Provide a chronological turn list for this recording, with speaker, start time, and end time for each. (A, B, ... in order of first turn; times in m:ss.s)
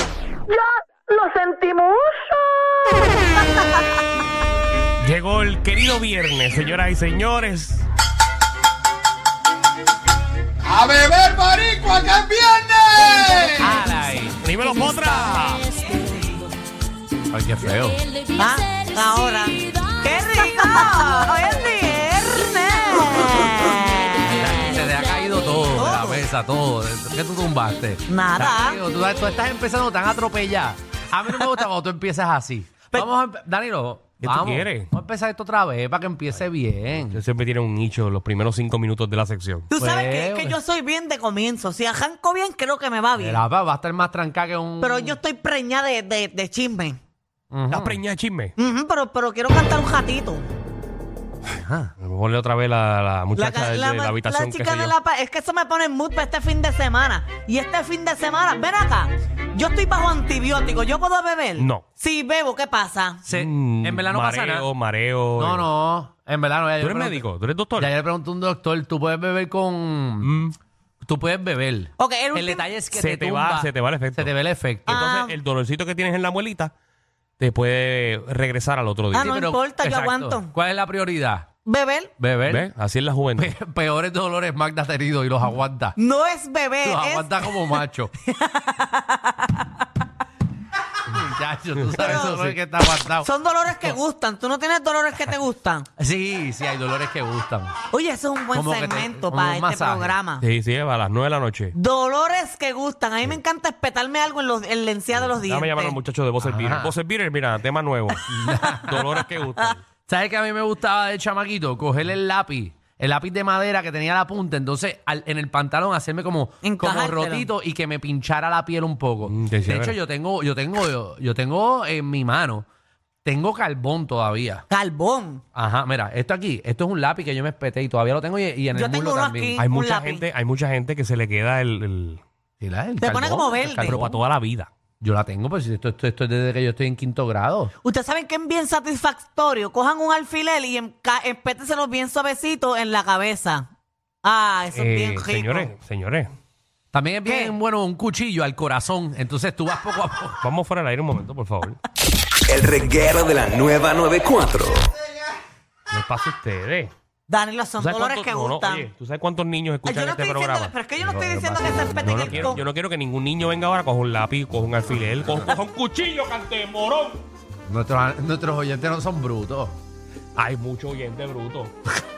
0:00.5-0:03.2 A
0:05.0-0:07.9 B
0:10.7-0:12.8 C
0:12.9-0:13.7 D
0:13.6-0:14.4 E
0:14.4-0:15.8 B
0:15.9-0:16.4 D
0:17.3-0:18.0 E
0:18.3-0:24.7 D
0:24.3-0:37.2 E
0:25.7-0:26.2 D
0:28.1-0:28.8 D
0:34.2-0:34.9 B
0:37.0-0:39.7 B
0:39.7-0:43.4 D
0:39.8-0:40.6 E
0:43.2-0:45.2 E
0:44.8-0:47.0 D
0:47.5-0:48.0 E
0:47.7-0:48.6 B
0:48.6-0:50.5 D
0:51.5-0:51.9 E
0:52.0-0:55.0 B
0:53.4-1:03.2 D
1:01.6-1:01.8 B
1:03.2-1:04.7 E
1:03.3-1:05.7 B
1:05.4-1:07.2 E
1:06.8-1:07.9 B
1:07.8-1:10.3 E
1:10.2-1:10.6 B
1:11.0-1:15.0 E
1:12.0-1:12.6 D
1:12.9-1:14.3 B
1:14.9-1:15.4 D
1:14.9-1:16.7 B
1:17.4-1:19.4 B
1:19.1-1:21.5 E
1:19.1-1:20.5 D
1:21.6-1:22.1 D
1:22.2-1:22.7 E
1:22.5-1:23.5 B
1:23.4-1:26.0 E
1:26.0-1:27.5 D
1:26.8-1:28.1 E
1:28.2-1:29.9 D
1:31.0-1:33.3 E
1:31.8-1:32.3 B
1:31.9-1:32.5 D
1:33.2-1:35.9 D
1:36.0-1:37.8 E
1:37.9-1:40.4 D
1:38.5-1:40.2 E
1:40.4-1:41.8 B
1:41.8-1:46.0 D
1:45.4-1:48.2 B
1:46.4-1:47.0 E
1:48.1-1:49.7 D
1:48.3-1:49.2 E
1:48.8-1:49.8 B
1:50.1-2:02.7 E
1:56.6-1:57.5 D
1:59.3-2:00.0 B
2:03.2-2:04.6 E
2:04.7-2:05.4 D
2:05.5-2:09.6 E
2:08.7-2:10.2 D
2:09.6-2:12.2 B
2:12.6-2:14.2 E
2:13.0-2:14.0 D
2:13.7-2:14.7 B
2:15.0-2:17.7 E
2:17.8-2:23.7 D
2:24.2-2:25.7 D
2:24.7-2:26.3 B
2:26.9-2:30.4 E
2:27.3-2:27.5 D
2:30.4-2:31.8 B
2:32.5-2:35.0 F
2:35.9-2:36.9 B
2:37.3-2:38.9 D
2:37.8-2:40.7 B
2:39.8-2:42.6 D
2:41.0-2:42.6 E
2:42.0-2:47.2 B
2:47.7-2:49.8 E
2:50.4-2:51.7 B